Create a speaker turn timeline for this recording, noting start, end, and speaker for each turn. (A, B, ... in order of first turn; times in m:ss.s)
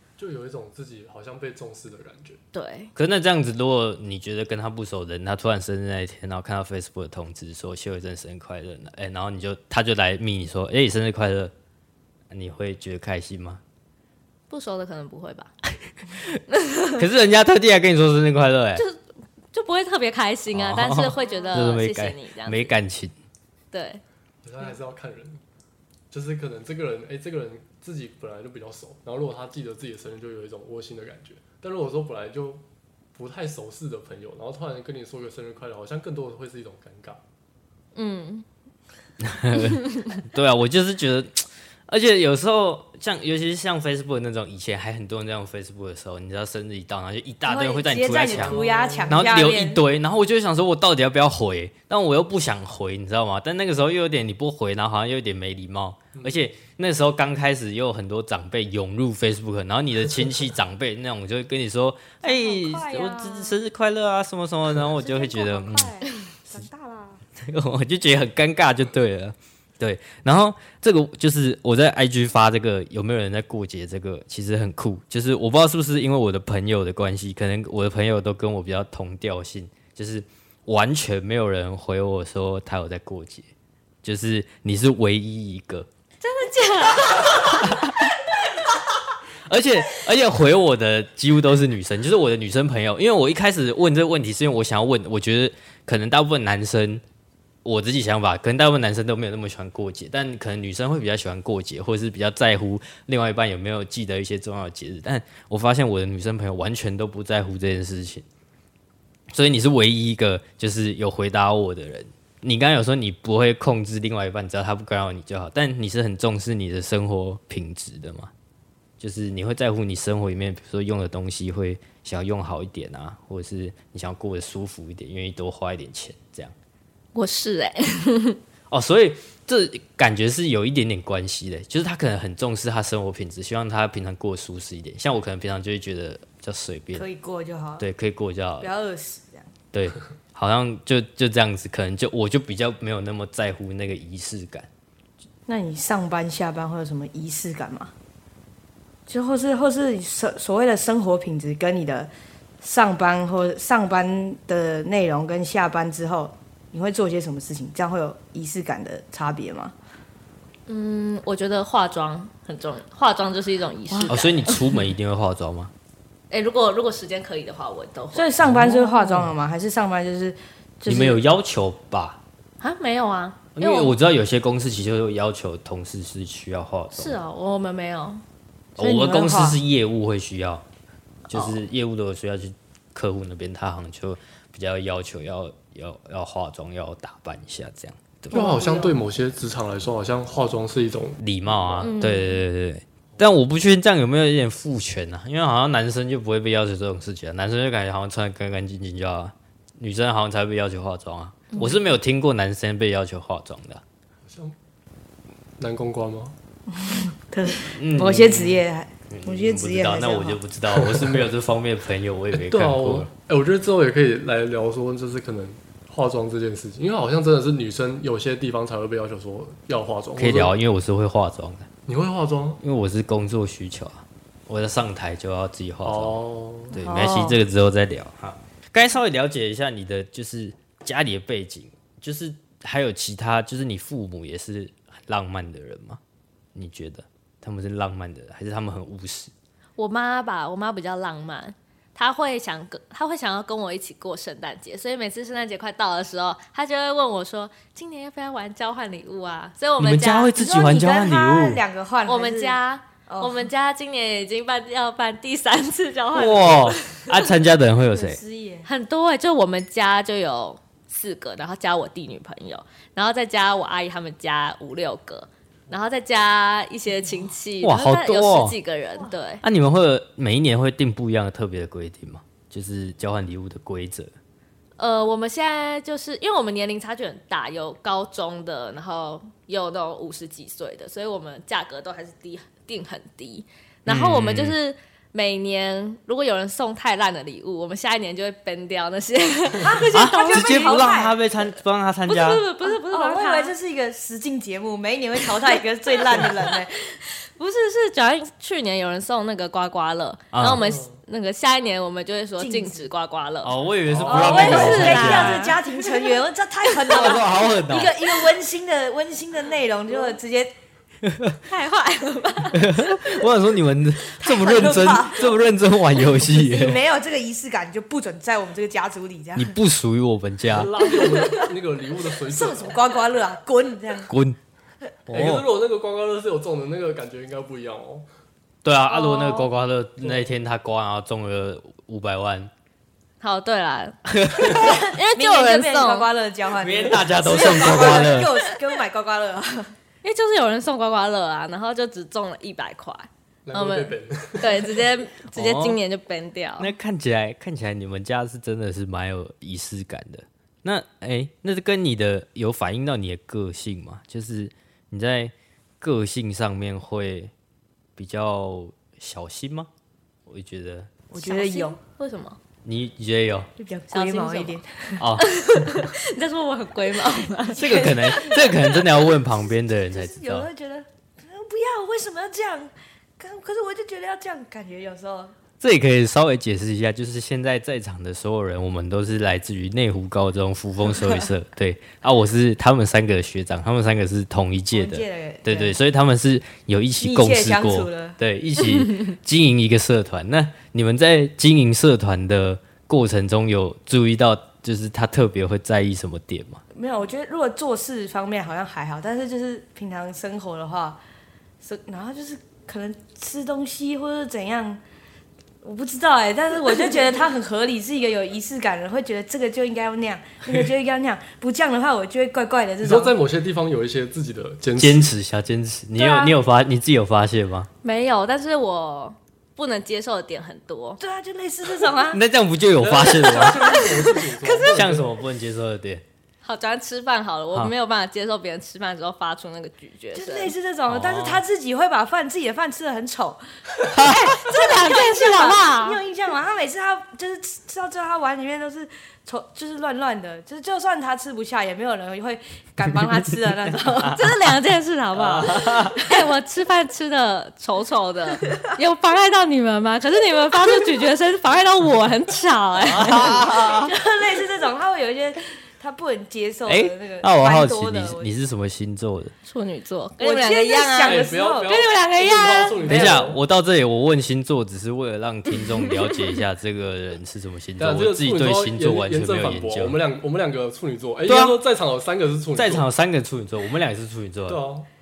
0:00.2-0:02.4 A
0:02.5-0:02.9 B
0:03.0-0:11.5 C
0:12.3-0:13.6 C
0:14.5-0:15.5 B
0:16.6-0:17.0 B
0:16.9-0:18.8 C
0:18.8-0:19.0 B
0:19.5-0:22.7 B
0:20.5-0:23.1 C
0:23.7-0:24.0 B
0:24.4-0:25.4 A
0:26.1-0:32.6 A
0:33.1-0:37.2 A
0:37.9-0:38.4 B
0:39.2-1:06.0 C
0:39.6-0:40.1 B
0:47.4-0:49.8 D
0:48.2-0:49.3 A
0:56.1-0:56.5 A
1:02.2-1:03.6 D
1:04.9-1:07.2 D
1:07.4-1:23.5 C
1:24.0-1:25.9 C
1:26.2-1:27.8 B
1:27.3-1:28.1 C
1:29.5-1:37.0 C
1:37.6-1:48.2 C
1:49.3-1:58.3 C
1:59.0-2:06.5 C
2:07.1-2:08.4 B
2:08.7-2:17.0 C
2:16.9-2:17.9 D
2:17.8-2:18.7 C
2:18.6-2:19.5 D
2:19.7-2:24.7 C
2:25.5-2:27.9 D
2:29.1-2:32.1 D
2:32.6-2:39.7 D
2:40.7-2:44.6 B
2:43.9-2:44.2 D
2:44.1-2:45.7 C
2:46.3-2:48.3 B
2:48.1-2:51.2 D
2:48.4-2:48.9 A
2:50.8-2:52.2 C
2:52.6-2:54.0 B
2:53.6-2:57.2 C
2:56.9-2:58.2 B
2:58.8-2:59.6 D
2:58.8-3:00.6 C
3:01.3-3:08.4 C
3:08.3-3:09.0 D
3:08.3-3:11.8 A
3:11.2-3:23.8 C
3:11.8-3:12.4 B
3:24.2-3:24.6 A
3:25.6-3:26.3 A
3:26.7-3:30.4 D
3:27.6-3:33.1 C
3:30.7-3:31.3 A
3:32.3-3:40.6 A
3:40.2-3:41.6 C
3:41.9-3:42.6 A
3:42.6-3:46.2 C
3:45.8-3:46.8 A
3:46.7-3:56.0 C
3:46.7-3:47.4 D
3:56.5-3:59.3 C
3:59.8-4:10.3 B
4:09.8-4:11.6 C
4:10.3-4:13.5 D
4:12.0-4:17.3 B
4:16.1-4:18.2 C
4:17.9-4:18.7 D
4:18.6-4:29.4 B
4:27.6-4:28.6 C
4:29.4-4:34.1 C
4:34.8-4:50.9 B
4:43.8-4:44.6 C
4:49.6-4:51.2 D
4:49.9-4:52.4 C
4:52.1-4:53.5 B
4:52.6-4:56.7 D
4:56.1-5:03.5 B
5:00.3-5:00.7 C
5:00.6-5:01.0 A
5:02.4-5:02.9 D
5:03.4-5:05.5 C
5:03.9-5:05.0 A
5:04.1-5:10.5 D
5:04.1-5:06.1 B
5:06.8-5:08.0 C
5:11.0-5:11.4 C
5:11.4-5:13.0 B
5:12.5-5:16.8 C
5:14.2-5:15.4 D
5:16.0-5:19.6 D
5:19.3-5:20.7 C
5:20.5-5:22.8 A
5:21.0-5:21.4 D
5:22.2-5:24.1 D
5:24.1-5:24.4 C
5:25.1-5:25.5 C
5:25.1-5:28.0 A
5:28.6-5:32.5 C
5:28.9-5:29.5 B
5:30.0-5:30.3 A
5:33.2-5:34.0 B
5:34.0-5:34.8 C
5:34.4-5:39.7 D
5:34.5-5:36.1 B
5:36.5-5:38.3 C
5:40.0-5:46.7 B
5:43.4-5:44.8 A
5:45.3-5:45.8 C
5:46.6-5:57.3 C
5:58.0-5:59.7 C
6:00.3-6:00.9 C
6:01.1-6:01.8 D
6:01.2-6:02.4 B
6:02.6-6:03.5 C
6:03.6-6:05.0 D
6:03.9-6:04.6 B
6:05.0-6:05.3 C
6:05.2-6:07.9 B
6:07.6-6:08.8 D
6:07.6-6:10.5 C
6:09.9-6:15.4 D
6:15.6-6:36.6 C
6:24.7-6:25.8 D
6:27.0-6:28.2 D
6:36.7-6:41.0 D
6:41.6-6:44.8 D
6:45.6-6:53.1 D
6:52.8-6:55.1 A
6:54.8-6:57.7 C
6:56.0-6:56.4 D
6:57.8-7:01.0 B
7:01.0-7:02.2 D
7:02.1-7:03.8 C
7:02.8-7:05.2 A
7:03.4-7:04.8 B
7:04.7-7:06.0 C
7:06.4-7:10.5 B
7:10.1-7:13.4 D
7:10.9-7:11.4 C
7:13.9-7:14.3 C
7:14.1-7:16.0 B
7:14.2-7:24.3 D
7:23.8-7:24.3 C
7:24.1-7:33.5 B
7:25.1-7:26.0 C
7:32.8-7:33.9 C
7:33.4-7:38.3 D
7:36.7-7:39.3 C
7:39.4-7:42.9 B
7:40.2-7:41.7 D
7:41.0-7:43.4 A
7:42.8-7:43.2 D
7:42.8-7:50.0 C
7:47.8-7:52.9 A
7:51.2-7:51.6 C
7:52.5-7:54.6 C
7:54.5-7:54.9 A